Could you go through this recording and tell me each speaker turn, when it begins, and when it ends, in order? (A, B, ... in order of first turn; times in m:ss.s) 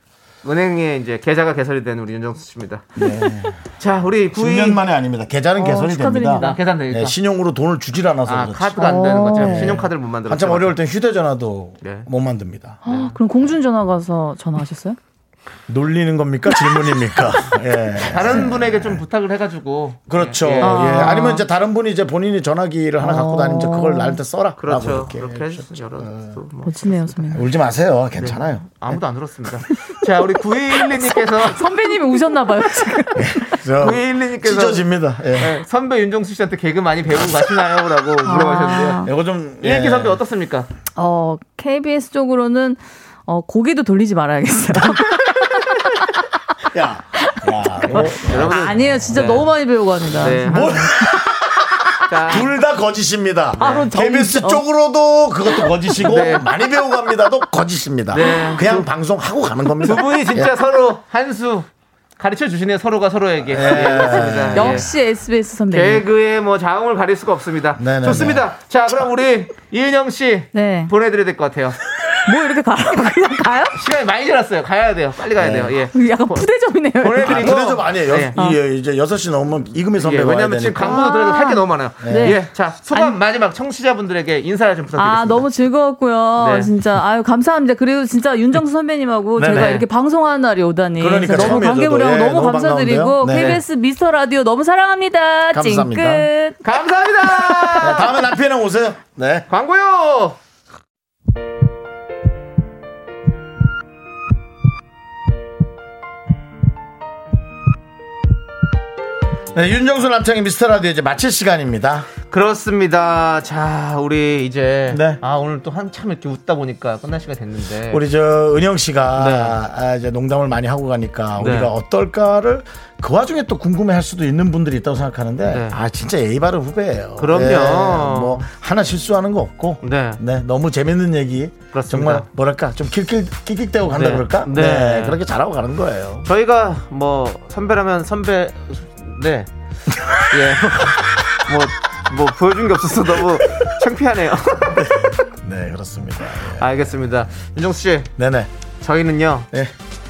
0:00.4-0:02.9 A
0:03.0-0:03.6 B
0:03.8-0:04.8 A
0:04.3-0:12.8 B
0:05.6-0:06.6 C
0:06.4-0:07.1 A
0:08.2-0:10.8 A
0:08.8-0:09.9 C
0:11.8-0:12.1 A
0:12.8-0:15.0 C
0:12.8-0:13.2 A
0:15.7-0:19.0 B
0:18.0-0:21.0 A
0:20.1-0:26.4 B
0:20.6-0:21.4 C
0:23.0-0:24.2 C
0:24.6-0:27.2 A
0:26.6-0:27.5 C
0:27.3-0:29.0 B
0:28.2-0:31.7 A
0:31.0-0:33.4 C
0:33.2-0:35.6 B
0:33.7-0:34.8 A
0:35.4-0:39.1 A
0:38.2-0:39.1 C
0:39.0-0:40.2 B
0:39.6-0:40.7 A
0:41.0-0:46.1 C
0:46.7-0:49.1 B
0:47.2-0:51.2 C
0:47.9-0:49.5 A
0:50.2-0:50.8 A
0:50.2-1:00.5 B
0:52.0-0:52.5 A
0:53.6-0:53.9 A
0:53.6-0:54.6 C
0:55.6-0:56.2 C
0:56.0-0:56.5 A
0:58.1-0:58.9 A
0:58.2-0:58.7 C
0:59.8-1:04.9 A
1:03.5-1:04.9 B
1:04.3-1:06.0 C
1:05.7-1:11.8 A
1:07.8-1:08.5 B
1:10.5-1:10.9 C
1:12.2-1:13.8 C
1:13.7-1:16.5 A
1:15.4-1:15.8 B
1:15.9-1:17.6 C
1:17.0-1:18.4 A
1:17.2-1:21.0 B
1:18.3-1:18.6 C
1:20.0-1:25.5 A
1:20.8-1:23.2 C
1:22.0-1:22.3 B
1:25.0-1:36.6 C
1:26.4-1:26.7 A
1:29.3-1:29.7 B
1:29.5-1:29.9 A
1:31.0-1:33.6 B
1:31.3-1:31.6 A
1:33.3-1:33.6 A
1:35.5-1:36.3 B
1:36.6-1:38.2 A
1:37.8-1:39.5 B
1:39.5-1:40.4 A
1:49.5-1:52.1 B
1:52.3-1:58.0 A
1:54.9-1:55.2 B
1:57.9-2:16.3 B
1:59.1-1:59.6 A
2:01.4-2:01.7 A
2:05.5-2:05.8 A
2:07.2-2:08.4 A
2:09.8-2:10.2 A
2:11.7-2:12.2 A
2:13.9-2:15.2 A
2:16.2-2:19.5 A
2:19.9-2:20.9 B
2:20.3-2:24.9 A
2:24.6-2:26.9 B
2:26.6-2:28.1 A
2:28.2-2:28.5 B
2:28.8-2:29.5 A